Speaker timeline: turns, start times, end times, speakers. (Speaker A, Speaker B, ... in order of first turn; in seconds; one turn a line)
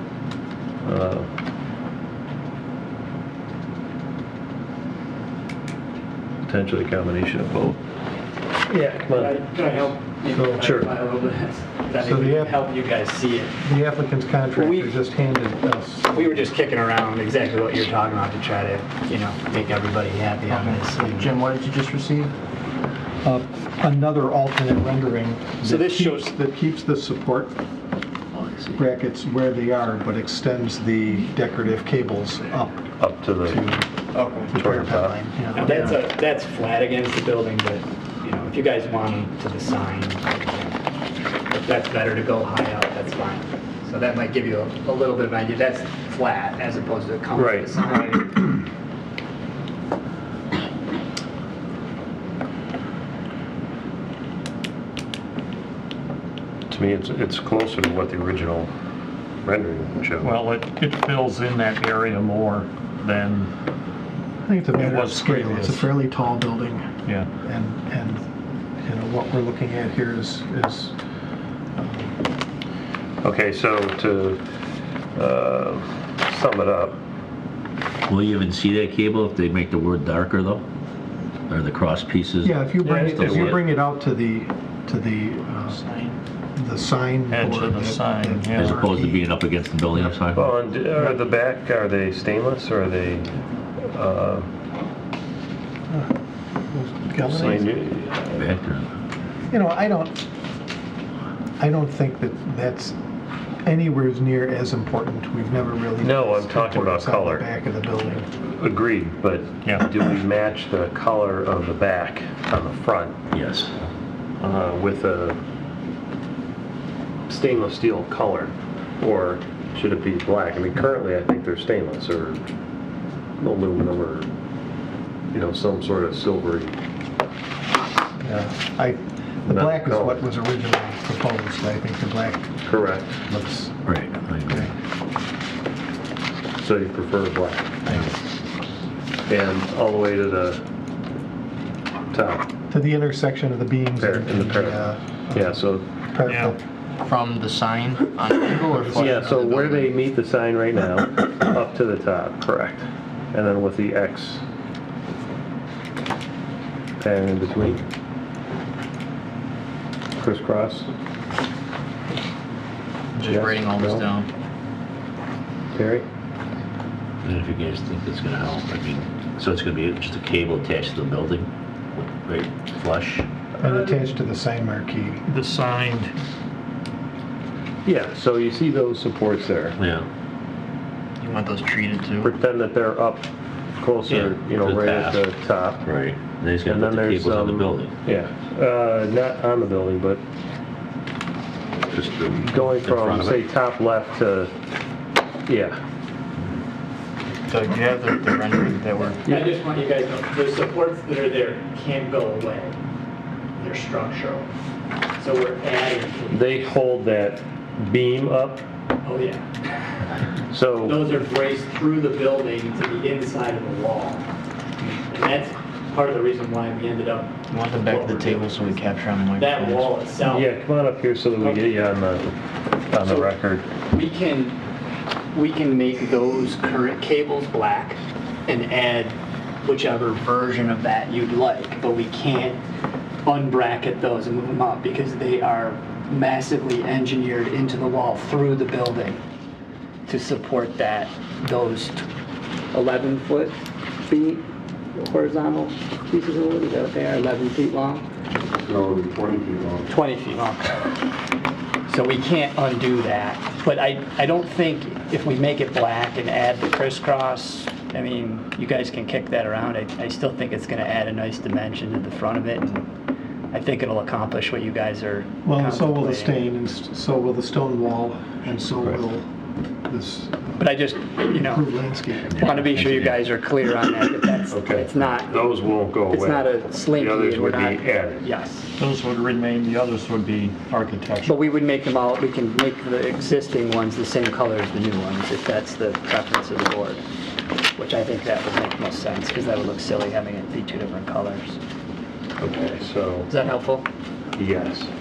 Speaker A: 0.8-1.3
Speaker A: 6.5-7.8
Speaker A: 8.7-9.3
Speaker B: 9.1-13.5
Speaker C: 10.2-10.7
Speaker A: 10.6-10.9
Speaker C: 12.0-12.6
Speaker C: 13.6-16.5
Speaker B: 14.5-14.9
Speaker B: 16.1-21.3
Speaker D: 20.5-22.3
Speaker C: 23.2-27.5
Speaker B: 25.6-26.3
Speaker D: 28.3-28.8
Speaker C: 28.7-32.8
Speaker A: 33.0-33.6
Speaker C: 33.5-33.9
Speaker D: 34.1-34.5
Speaker C: 34.4-36.0
Speaker A: 34.5-35.2
Speaker B: 35.5-40.8
Speaker B: 41.5-48.5
Speaker A: 47.3-47.7
Speaker A: 56.7-58.7
Speaker A: 59.4-60.3
Speaker E: 60.2-63.5
Speaker C: 64.4-66.8
Speaker E: 64.7-65.9
Speaker C: 67.4-68.2
Speaker C: 68.8-70.9
Speaker C: 71.7-72.2
Speaker A: 73.2-74.4
Speaker A: 75.2-77.0
Speaker F: 78.1-80.6
Speaker F: 81.5-82.5
Speaker C: 82.4-85.8
Speaker A: 82.8-83.5
Speaker F: 83.1-83.6
Speaker D: 85.7-86.2
Speaker C: 86.5-89.2
Speaker E: 87.3-88.8
Speaker F: 88.5-90.5
Speaker A: 90.3-93.3
Speaker A: 93.9-94.5
Speaker C: 96.7-97.7
Speaker A: 97.2-98.5
Speaker F: 98.3-98.9
Speaker C: 99.5-100.2
Speaker C: 101.6-102.9
Speaker C: 103.6-108.2
Speaker A: 106.0-107.5
Speaker A: 108.3-113.2
Speaker F: 113.3-113.7
Speaker A: 114.4-115.4
Speaker A: 117.3-122.5
Speaker A: 123.4-124.3
Speaker A: 125.3-126.7
Speaker C: 128.2-132.4
Speaker A: 129.4-130.2
Speaker A: 132.6-133.1
Speaker C: 133.3-133.7
Speaker F: 133.9-134.5
Speaker A: 136.6-137.7
Speaker A: 139.3-140.6
Speaker A: 142.1-142.4
Speaker C: 142.7-145.6
Speaker A: 144.0-145.8
Speaker C: 146.1-146.6
Speaker E: 146.2-146.6
Speaker D: 147.0-149.9
Speaker C: 148.7-149.2
Speaker A: 148.9-154.4
Speaker A: 157.0-157.8
Speaker A: 160.2-160.9
Speaker D: 163.1-164.3
Speaker A: 163.2-164.1
Speaker A: 165.7-166.1
Speaker F: 167.2-171.5
Speaker F: 172.2-173.2
Speaker C: 173.6-175.2
Speaker E: 173.6-173.9
Speaker E: 175.3-176.1
Speaker A: 177.8-179.8
Speaker F: 179.8-180.1
Speaker D: 181.2-182.3
Speaker A: 182.2-183.3
Speaker A: 183.8-185.8
Speaker F: 184.1-185.2
Speaker F: 185.8-187.9
Speaker A: 186.7-190.2
Speaker F: 191.8-193.4
Speaker A: 192.4-194.5
Speaker D: 193.0-193.3
Speaker A: 195.5-195.8
Speaker D: 197.5-199.2
Speaker B: 199.2-202.8
Speaker A: 199.2-199.5
Speaker B: 203.6-204.5
Speaker B: 205.2-206.4
Speaker A: 206.3-208.6
Speaker B: 209.0-209.4
Speaker A: 210.5-211.0
Speaker B: 210.8-214.3
Speaker B: 214.8-218.8
Speaker D: 217.5-219.9
Speaker B: 219.3-220.5
Speaker A: 220.2-222.2
Speaker A: 222.9-223.7
Speaker B: 223.0-223.3
Speaker B: 223.9-224.6
Speaker B: 225.3-232.6
Speaker B: 233.2-239.2
Speaker B: 240.1-242.0
Speaker B: 242.7-244.4
Speaker B: 244.9-248.0
Speaker A: 248.6-249.9
Speaker B: 249.9-250.9
Speaker B: 251.9-262.9
Speaker B: 263.5-266.4
Speaker C: 265.4-269.3
Speaker C: 269.9-270.7
Speaker B: 270.6-278.7
Speaker C: 271.3-272.5
Speaker A: 274.5-278.3
Speaker E: 278.8-281.4
Speaker B: 281.2-287.0
Speaker B: 287.7-291.6
Speaker A: 292.4-293.3
Speaker B: 293.3-293.9
Speaker A: 294.4-294.9